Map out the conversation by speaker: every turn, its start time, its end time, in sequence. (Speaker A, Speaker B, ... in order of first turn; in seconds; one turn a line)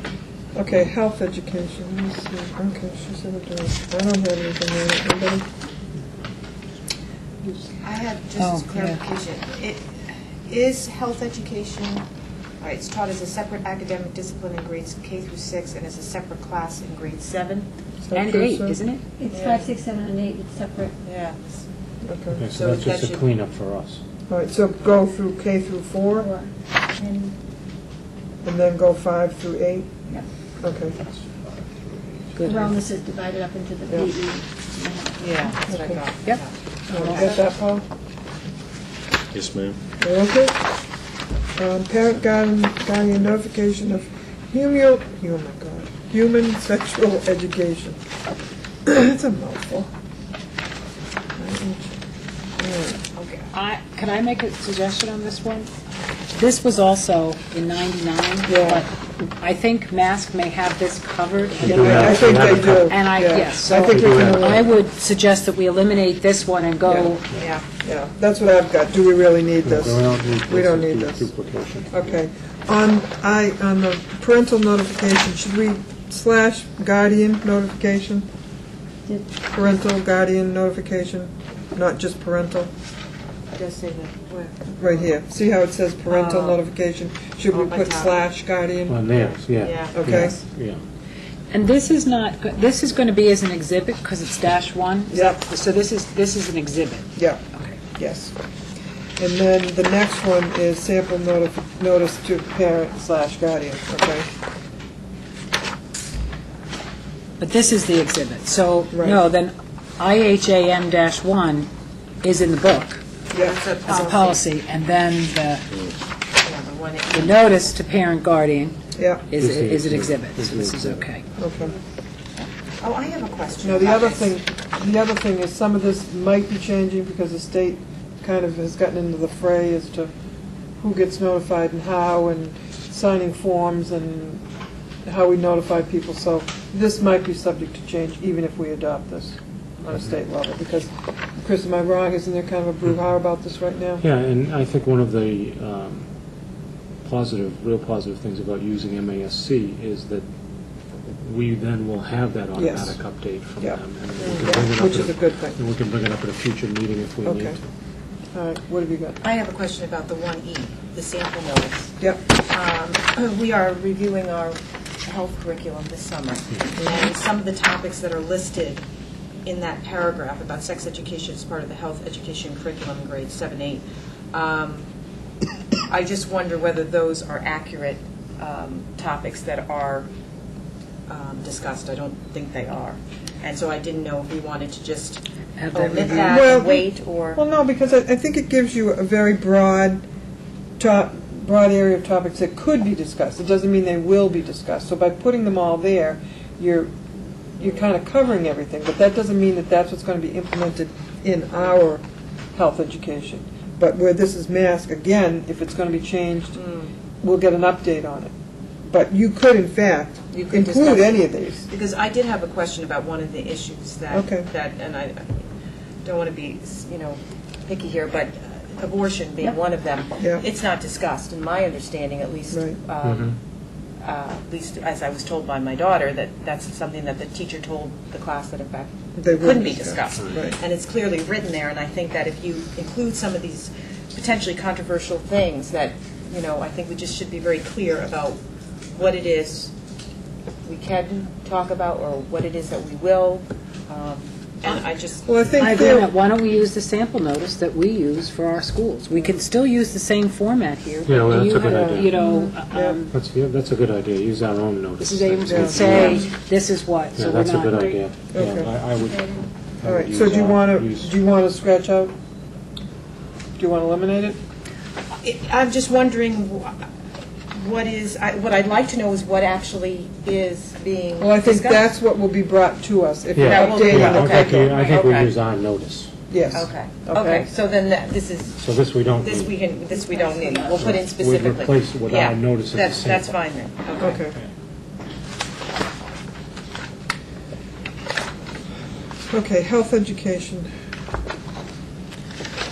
Speaker A: 0.5-5.5
Speaker B: 7.8-9.9
Speaker C: 8.4-9.0
Speaker B: 10.4-12.0
Speaker B: 12.6-17.7
Speaker A: 18.0-18.8
Speaker C: 18.1-19.0
Speaker D: 19.2-20.9
Speaker B: 19.3-19.7
Speaker B: 21.0-21.6
Speaker A: 22.0-22.4
Speaker E: 22.3-24.0
Speaker B: 22.5-23.2
Speaker A: 24.3-26.3
Speaker D: 26.1-26.5
Speaker B: 26.9-27.4
Speaker A: 28.4-29.9
Speaker A: 30.6-30.9
Speaker E: 30.8-32.5
Speaker C: 32.4-32.7
Speaker D: 32.4-35.9
Speaker B: 35.2-36.5
Speaker A: 35.7-36.0
Speaker A: 36.9-37.9
Speaker C: 36.9-37.4
Speaker E: 39.4-39.7
Speaker A: 40.0-40.6
Speaker A: 41.5-48.0
Speaker A: 48.9-49.9
Speaker A: 51.4-52.0
Speaker A: 52.6-53.0
Speaker B: 53.1-53.5
Speaker C: 53.5-55.7
Speaker C: 56.3-67.2
Speaker A: 58.5-58.9
Speaker E: 61.6-63.0
Speaker A: 61.6-64.7
Speaker E: 63.7-64.7
Speaker A: 66.8-67.1
Speaker B: 67.3-67.6
Speaker A: 67.8-71.2
Speaker E: 69.6-72.1
Speaker A: 71.9-78.3
Speaker A: 79.5-82.7
Speaker B: 83.5-85.1
Speaker A: 84.8-89.0
Speaker B: 86.1-86.6
Speaker B: 87.5-88.2
Speaker E: 88.9-90.8
Speaker B: 89.2-90.3
Speaker A: 89.9-90.4
Speaker C: 91.5-97.8
Speaker A: 95.1-95.4
Speaker A: 97.2-97.4
Speaker A: 98.0-98.3
Speaker A: 99.2-104.3
Speaker C: 107.4-111.7
Speaker A: 108.9-109.2
Speaker C: 112.2-113.0
Speaker A: 113.3-114.1
Speaker B: 113.3-114.4
Speaker C: 113.9-115.7
Speaker B: 116.4-117.7
Speaker C: 117.1-121.2
Speaker A: 119.0-119.2
Speaker E: 119.4-121.1
Speaker A: 121.4-121.7
Speaker B: 122.3-124.3
Speaker A: 123.6-130.1
Speaker A: 130.8-134.4
Speaker A: 135.0-144.0
Speaker E: 144.0-146.1
Speaker E: 147.0-150.3
Speaker E: 151.0-157.6
Speaker A: 152.6-153.0
Speaker A: 153.6-155.6
Speaker A: 157.2-157.6
Speaker A: 158.3-159.2
Speaker B: 159.2-168.8
Speaker A: 166.8-167.1
Speaker B: 169.4-174.8
Speaker B: 175.9-180.1
Speaker B: 181.1-187.4
Speaker C: 185.6-186.4
Speaker A: 185.8-190.0
Speaker A: 190.8-196.9
Speaker A: 197.6-202.0
Speaker A: 202.5-206.6
Speaker B: 206.5-206.9
Speaker A: 207.2-208.3
Speaker A: 208.9-211.7
Speaker B: 210.3-215.4
Speaker A: 214.1-214.5
Speaker B: 216.0-223.3
Speaker A: 220.2-220.4
Speaker A: 222.5-222.8
Speaker E: 223.0-223.4
Speaker B: 224.0-238.4
Speaker A: 229.2-230.6
Speaker B: 238.9-239.7
Speaker B: 240.6-245.7
Speaker A: 245.2-246.1
Speaker C: 245.5-253.1
Speaker E: 251.1-252.1
Speaker A: 251.6-252.0
Speaker A: 252.7-253.0
Speaker E: 253.1-256.3
Speaker C: 255.0-258.0
Speaker A: 255.5-256.1
Speaker B: 255.9-256.2
Speaker E: 257.1-261.1
Speaker A: 258.3-258.7
Speaker A: 259.8-262.1
Speaker A: 263.6-264.4
Speaker B: 265.2-266.9
Speaker B: 267.5-271.9
Speaker A: 271.2-274.8
Speaker E: 273.3-276.1
Speaker B: 273.4-275.3
Speaker A: 276.3-277.5
Speaker B: 276.5-278.6
Speaker E: 278.6-279.6
Speaker B: 279.2-284.2
Speaker D: 279.9-280.8
Speaker E: 280.8-283.3
Speaker A: 284.0-284.4
Speaker A: 289.3-290.7